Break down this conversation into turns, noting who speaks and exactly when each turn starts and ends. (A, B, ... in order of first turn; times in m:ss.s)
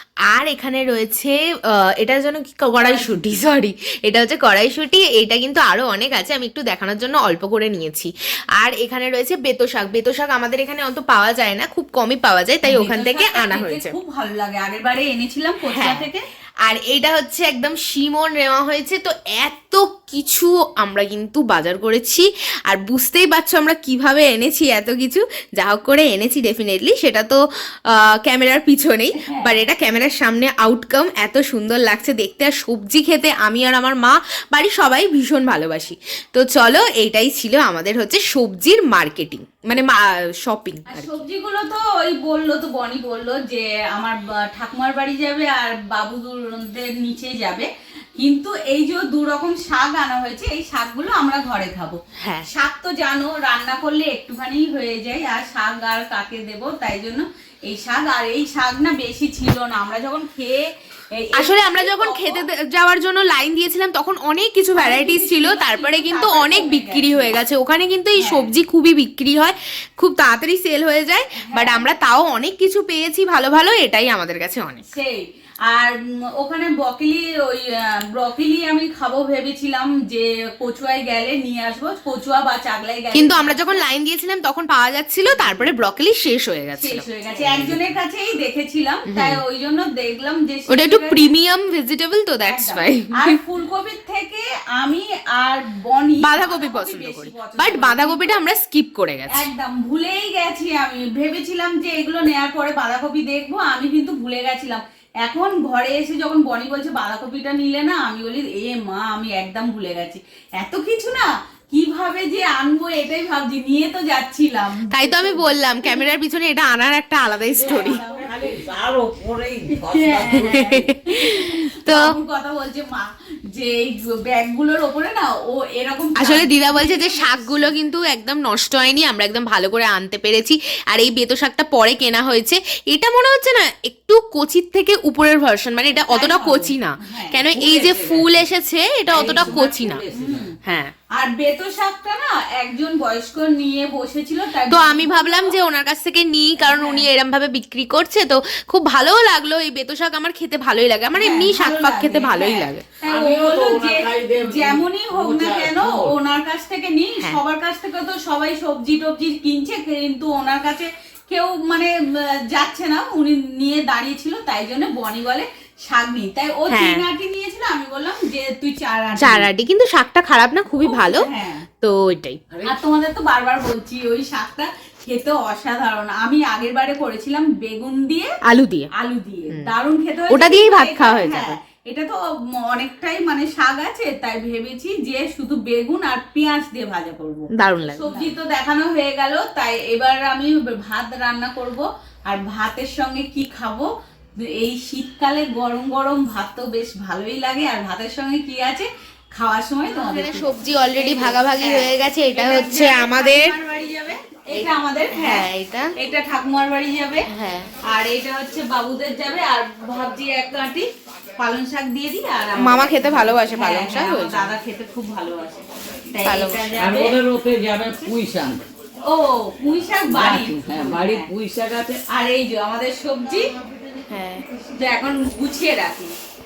0:00.3-0:14.0 A
0:02.8-0:03.1 B
0:12.6-0:16.2 B
0:15.7-0:16.0 A
0:16.6-0:41.2 A
0:29.2-0:29.6 B
0:40.9-1:02.4 B
0:52.2-0:52.5 A
1:01.4-1:14.8 A
1:04.7-1:07.3 B
1:08.2-1:08.4 B
1:11.5-1:11.8 B
1:14.9-1:23.8 B
1:23.1-1:27.5 A
1:25.3-1:25.6 B
1:26.8-1:31.3 B
1:27.4-1:27.8 C
1:29.1-1:29.4 A
1:30.7-1:33.4 A
1:32.4-1:38.2 B
1:36.2-1:39.5 A
1:39.3-1:56.0 B
1:54.9-1:58.0 A
1:57.5-2:00.6 C
1:57.6-1:58.6 B
1:59.8-2:07.7 B
2:00.2-2:02.0 A
2:06.2-2:20.0 A
2:15.9-2:17.4 B
2:17.5-2:18.4 C
2:19.1-2:20.5 C
2:19.2-2:20.6 B
2:20.6-2:20.9 A
2:21.2-2:25.5 B
2:24.6-2:32.9 A
2:26.6-2:27.1 B
2:31.1-2:49.5 B
2:33.0-2:36.1 C
2:46.7-2:47.0 A
2:49.2-2:51.3 A
2:50.8-2:51.6 B
2:51.8-2:52.4 A
2:52.5-2:52.8 C
2:52.6-2:58.3 B
2:58.4-2:58.9 A
2:59.0-3:27.3 B
3:00.3-3:01.6 A
3:07.6-3:08.4 A
3:19.9-3:23.6 A
3:24.5-3:25.9 A
3:27.3-3:27.7 A
3:27.8-3:30.9 B
3:31.4-3:37.2 B
3:32.6-3:34.5 A
3:36.2-3:36.8 A
3:36.7-3:38.6 C
3:39.0-3:41.3 B
3:40.0-3:42.0 C
3:42.1-3:43.5 B
3:44.1-3:44.4 A
3:44.6-3:46.1 B